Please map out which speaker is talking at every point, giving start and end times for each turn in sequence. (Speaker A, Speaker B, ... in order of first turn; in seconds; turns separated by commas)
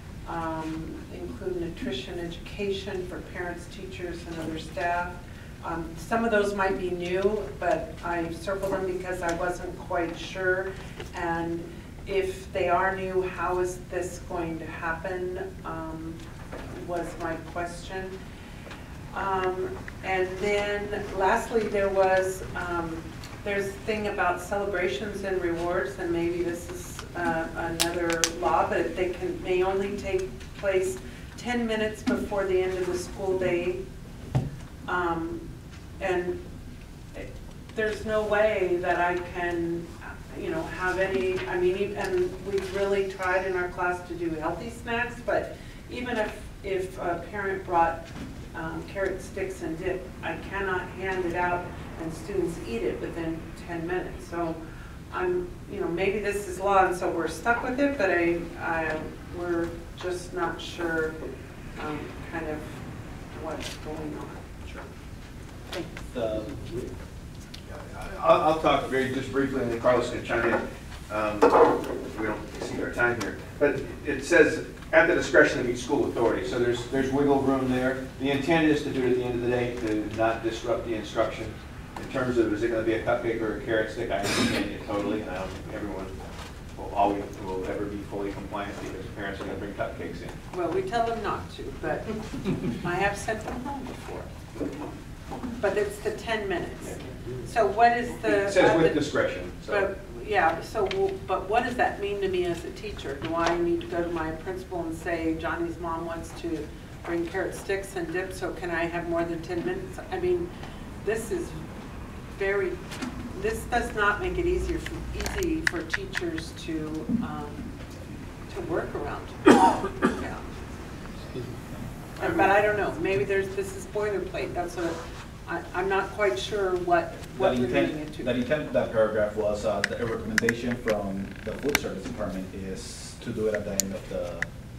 Speaker A: 0.2-16.2, Speaker A: 16.7-18.2, Speaker A: 19.1-33.8, Speaker A: 34.9-35.5, Speaker A: 36.0-36.4, Speaker A: 37.1-54.6, Speaker A: 55.1-61.1, Speaker A: 61.8-62.8, Speaker A: 63.3-64.7, Speaker A: 65.7-66.2, Speaker B: 66.1-66.5, Speaker C: 67.7-86.1, Speaker C: 86.8-90.4, Speaker A: 90.5-94.3, Speaker A: 95.6-110.5, Speaker C: 98.3-99.9, Speaker A: 111.0-111.6, Speaker A: 112.3-112.8, Speaker A: 113.3-117.7, Speaker A: 118.5-120.5, Speaker A: 122.2-128.4, Speaker B: 127.3-134.5